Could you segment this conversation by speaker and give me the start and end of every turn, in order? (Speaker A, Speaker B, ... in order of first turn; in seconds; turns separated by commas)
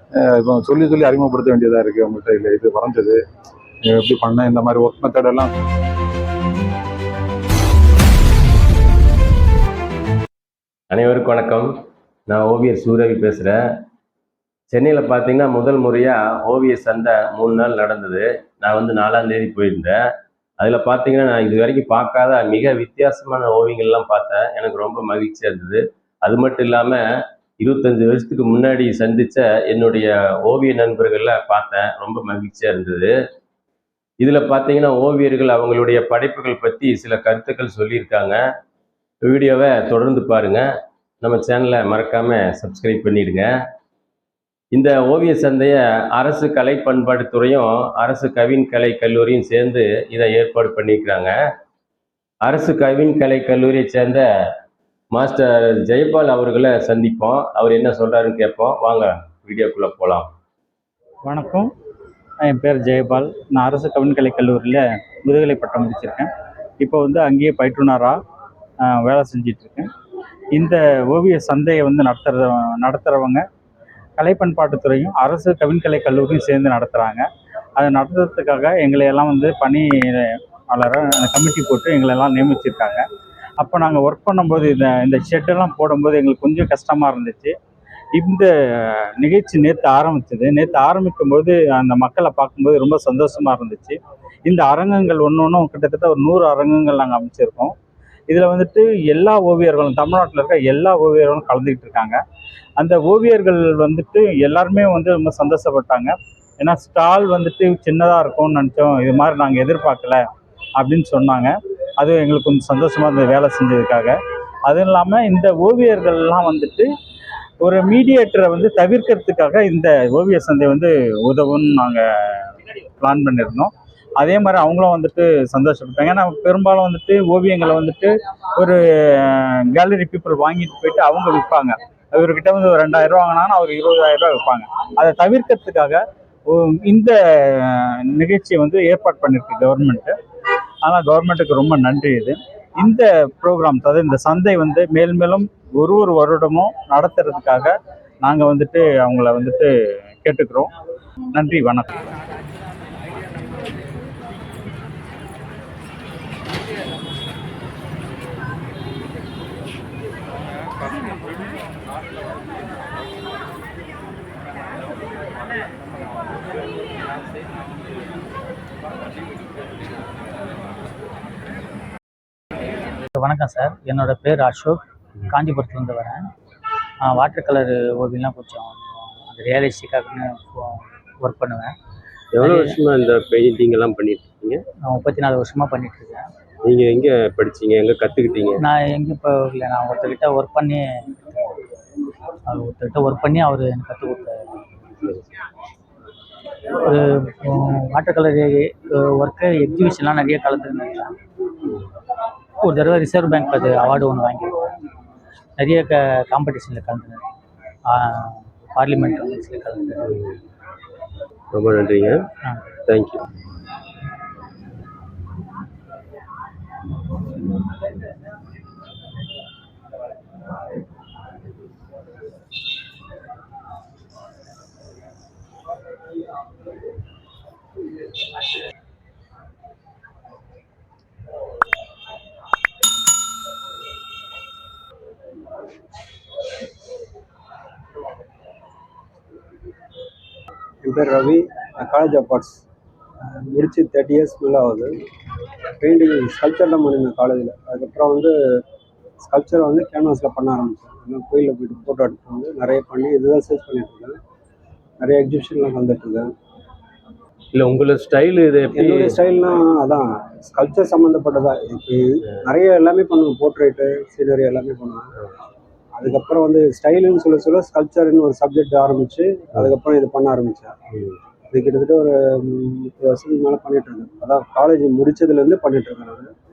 Speaker A: 0.2-3.2, Speaker A: 3.9-5.7, Speaker B: 10.9-11.7, Speaker B: 12.3-13.6, Speaker B: 14.7-20.0, Speaker B: 20.6-27.0, Speaker B: 27.6-33.1, Speaker B: 34.2-38.4, Speaker B: 39.2-40.6, Speaker B: 41.2-43.5, Speaker B: 44.7-51.3, Speaker B: 52.4-54.2, Speaker B: 55.1-60.3, Speaker C: 61.2-61.6, Speaker C: 62.5-66.3, Speaker C: 66.8-68.1, Speaker C: 68.9-69.9, Speaker C: 70.5-73.4, Speaker C: 74.2-77.2, Speaker C: 77.8-83.0, Speaker C: 83.6-87.5, Speaker C: 88.2-88.5, Speaker C: 89.2-97.7, Speaker C: 98.3-102.2, Speaker C: 102.8-110.2, Speaker C: 110.8-116.8, Speaker C: 117.6-122.4, Speaker C: 123.0-140.1, Speaker C: 140.8-149.7, Speaker C: 150.2-150.7, Speaker C: 151.3-151.9, Speaker D: 173.1-176.3, Speaker D: 177.0-181.7, Speaker B: 182.3-184.6, Speaker D: 182.3-182.8, Speaker D: 184.8-186.3, Speaker B: 186.7-188.4, Speaker D: 188.5-191.6, Speaker D: 192.4-194.4, Speaker D: 196.8-201.1, Speaker D: 202.6-204.7, Speaker D: 205.6-207.2, Speaker D: 207.9-210.2, Speaker B: 211.5-212.2, Speaker B: 212.9-213.2, Speaker E: 240.8-242.6, Speaker E: 243.5-244.9, Speaker E: 245.8-248.3, Speaker E: 249.2-254.2, Speaker E: 255.0-256.3, Speaker B: 257.5-259.2, Speaker E: 258.7-265.1, Speaker E: 265.9-270.7, Speaker E: 271.5-276.3